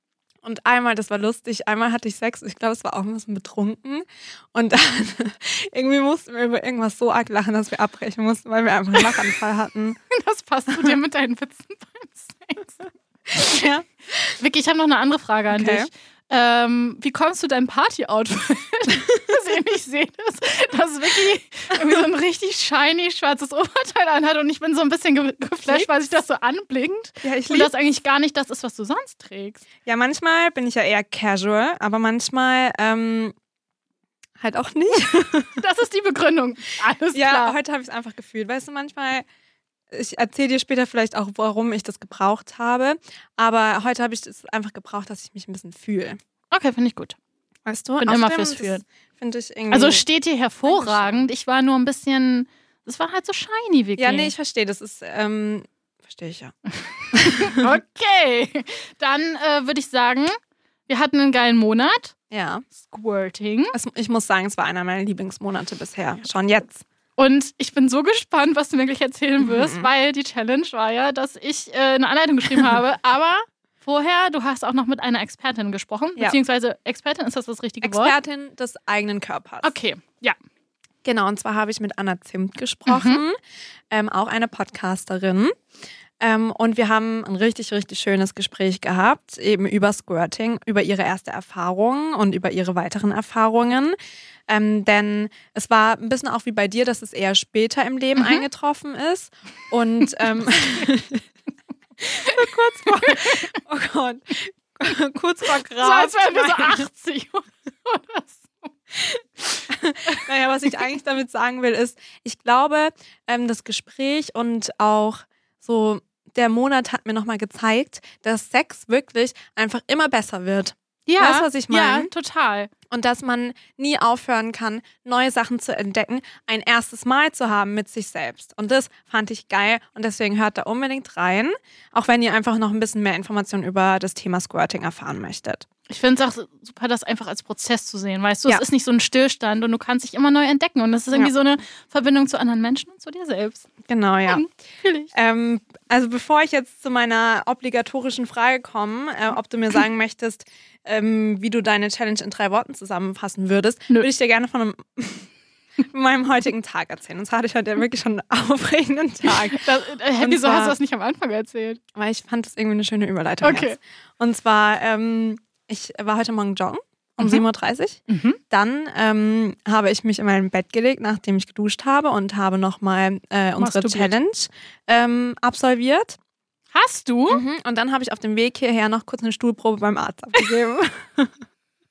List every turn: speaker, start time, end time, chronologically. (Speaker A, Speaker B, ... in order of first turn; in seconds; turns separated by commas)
Speaker A: 0.4-10.0, Speaker B: 9.0-9.3, Speaker B: 10.1-12.8, Speaker A: 13.3-14.4, Speaker B: 14.4-29.7, Speaker A: 15.5-15.9, Speaker A: 27.2-27.7, Speaker A: 29.8-33.3, Speaker A: 34.4-35.6, Speaker B: 35.6-37.5, Speaker A: 37.1-39.2, Speaker A: 39.9-46.2, Speaker B: 46.5-47.2, Speaker A: 47.7-50.0, Speaker B: 48.0-48.8, Speaker B: 49.7-54.3, Speaker A: 50.6-51.3, Speaker A: 54.0-56.5, Speaker B: 56.9-60.3, Speaker A: 57.1-57.7, Speaker B: 60.9-62.1, Speaker A: 62.3-62.6, Speaker B: 62.8-63.7, Speaker A: 63.7-66.8, Speaker B: 67.2-78.1, Speaker A: 69.4-69.9, Speaker A: 77.8-79.7, Speaker B: 79.6-80.4, Speaker A: 81.0-83.4, Speaker B: 82.9-83.2, Speaker A: 83.9-85.5, Speaker A: 86.2-94.0, Speaker A: 94.5-101.3, Speaker B: 98.2-98.4, Speaker A: 102.0-106.9, Speaker B: 102.2-103.5, Speaker B: 105.8-108.7, Speaker A: 109.0-122.1, Speaker B: 121.1-122.7, Speaker A: 122.9-135.7, Speaker B: 135.9-143.7, Speaker A: 143.9-144.4, Speaker B: 144.3-145.1, Speaker A: 145.1-155.3, Speaker A: 155.9-160.8, Speaker B: 159.3-161.8, Speaker A: 161.9-176.2, Speaker B: 163.4-163.8, Speaker B: 167.2-167.4, Speaker B: 168.1-168.4, Speaker B: 173.6-174.1, Speaker B: 176.7-177.4, Speaker A: 177.3-181.3